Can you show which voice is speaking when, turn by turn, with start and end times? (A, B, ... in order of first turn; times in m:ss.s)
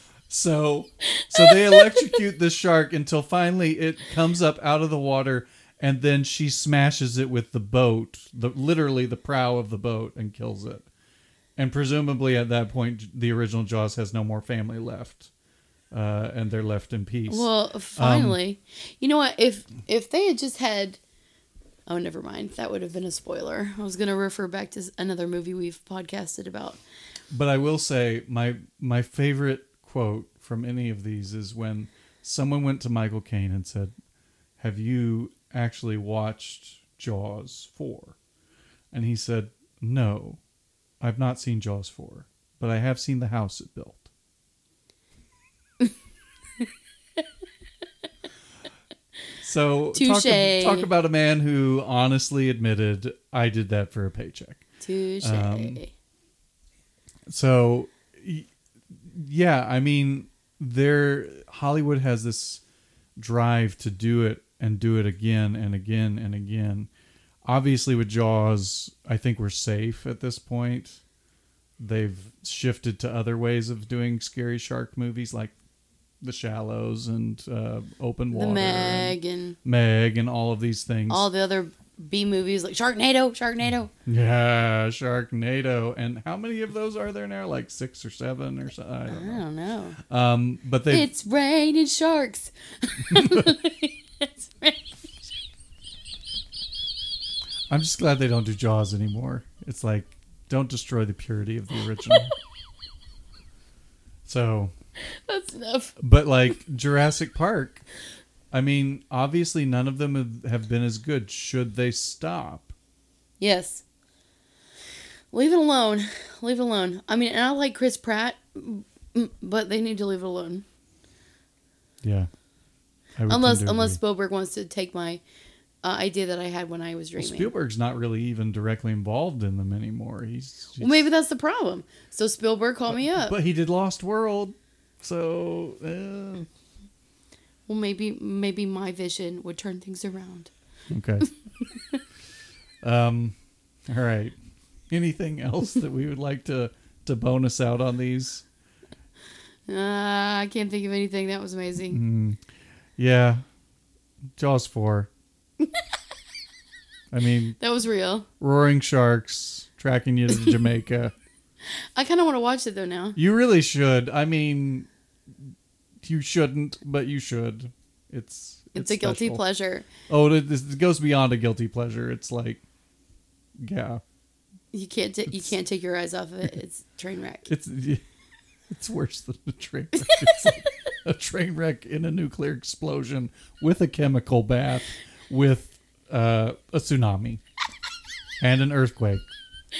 0:00.3-0:10.9 A
0:01.2-0:02.2 B
0:11.6-0:15.3 A
0:15.9-0:18.4 A
0:17.3-0:21.0 B
0:21.9-0:26.8 B
0:27.3-0:33.9 A
0:34.6-0:38.2 A
0:38.9-0:40.4 A
0:41.0-0:44.1 A
0:49.4-0:54.6 A
0:49.9-0:50.9 B
0:54.8-0:55.9 B
0:55.2-0:55.8 A
0:57.3-1:02.6 A
1:03.2-1:06.9 A
1:07.4-1:11.0 A
1:11.8-1:15.5 A
1:16.2-1:21.3 A
1:18.3-1:19.6 B
1:21.1-1:23.9 B
1:24.0-1:29.4 A
1:29.1-1:30.0 B
1:30.1-1:31.1 A
1:30.9-1:34.8 B
1:33.1-1:33.5 A
1:37.7-1:42.3 A
1:44.2-1:44.7 A
1:45.3-1:45.9 B
1:46.0-1:47.8 A
1:48.5-1:52.7 A
1:53.4-1:53.8 B
1:55.3-2:00.6 B
2:02.0-2:02.3 A
2:03.2-2:04.0 A
2:03.3-2:05.2 B
2:05.8-2:07.5 B
2:07.2-2:11.1 A
2:10.8-2:13.3 B
2:12.9-2:16.5 A
2:17.7-2:20.5 B
2:20.9-2:21.3 A
2:22.8-2:23.4 A
2:23.9-2:24.4 A
2:24.9-2:28.4 A
2:29.7-2:32.0 B
2:31.9-2:32.4 A
2:33.0-2:33.4 A
2:34.4-2:35.1 A
2:37.1-2:37.6 A
2:37.6-2:38.3 B
2:38.4-2:41.1 A
2:40.3-2:40.6 B
2:41.9-2:43.2 B
2:43.2-2:44.9 A
2:46.0-2:49.4 A
2:48.7-2:49.9 B
2:50.1-2:52.6 A
2:53.6-2:54.0 A
2:54.7-2:57.5 B
2:57.5-2:58.0 A
2:58.7-3:07.4 A
3:00.0-3:00.4 B
3:08.4-3:09.3 A